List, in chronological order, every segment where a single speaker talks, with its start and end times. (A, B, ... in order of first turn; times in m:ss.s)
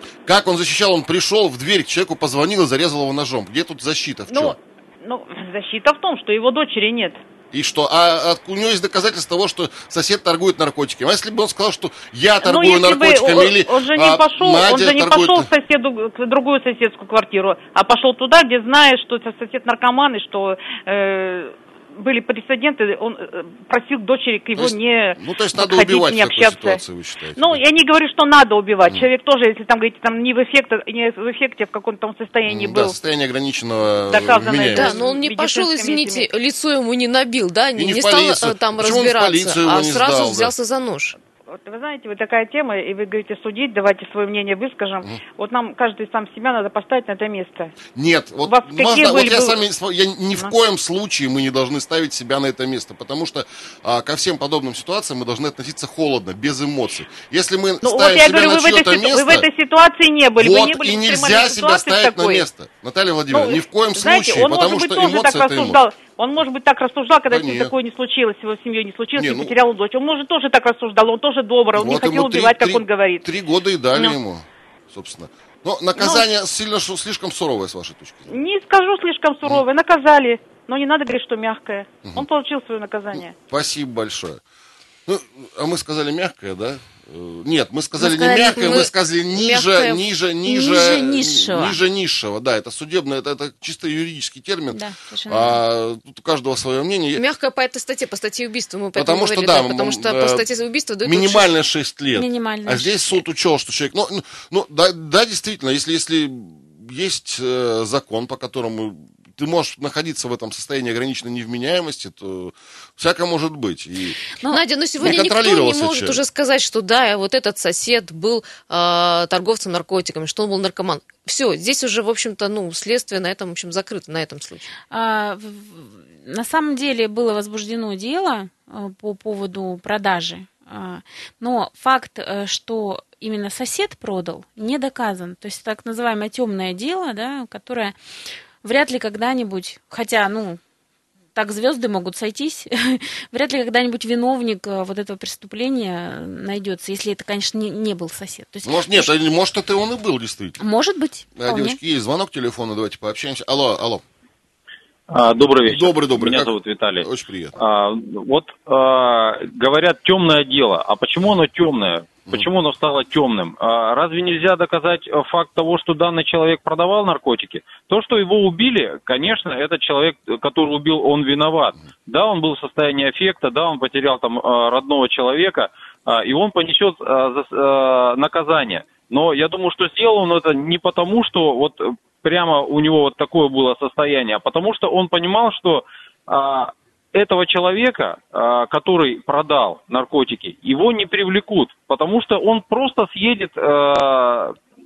0:00.2-0:04.6 A
0:04.3-0:07.2 B
0:07.5-0:15.5 A
0:12.4-0:26.8 B
0:24.6-0:27.6 A
0:27.4-0:33.0 B
0:32.5-0:35.0 A
0:34.1-0:36.3 B
0:34.7-0:41.1 C
0:37.8-0:40.5 A
0:41.5-0:47.7 B
0:47.9-0:59.5 A
0:48.4-0:49.6 B
0:57.8-1:02.5 B
1:00.4-1:05.8 A
1:03.3-1:13.3 B
1:07.3-1:07.7 A
1:09.2-1:09.5 A
1:11.7-1:18.3 A
1:16.0-1:16.2 B
1:18.3-1:23.3 B
1:23.1-1:24.4 A
1:25.0-1:37.2 A
1:28.0-1:28.6 D
1:28.4-1:30.0 C
1:30.4-1:31.8 D
1:34.7-1:35.6 D
1:37.1-1:41.5 C
1:39.0-1:40.4 A
1:41.0-1:54.2 A
1:42.1-1:43.0 D
1:54.5-2:04.7 C
1:55.0-1:56.2 A
2:04.9-2:17.9 D
2:18.6-2:20.6 D
2:21.3-2:29.1 D
2:28.6-2:30.6 A
2:30.6-2:31.8 D
2:31.4-2:34.0 A
2:35.1-3:14.6 E
2:35.6-2:37.6 A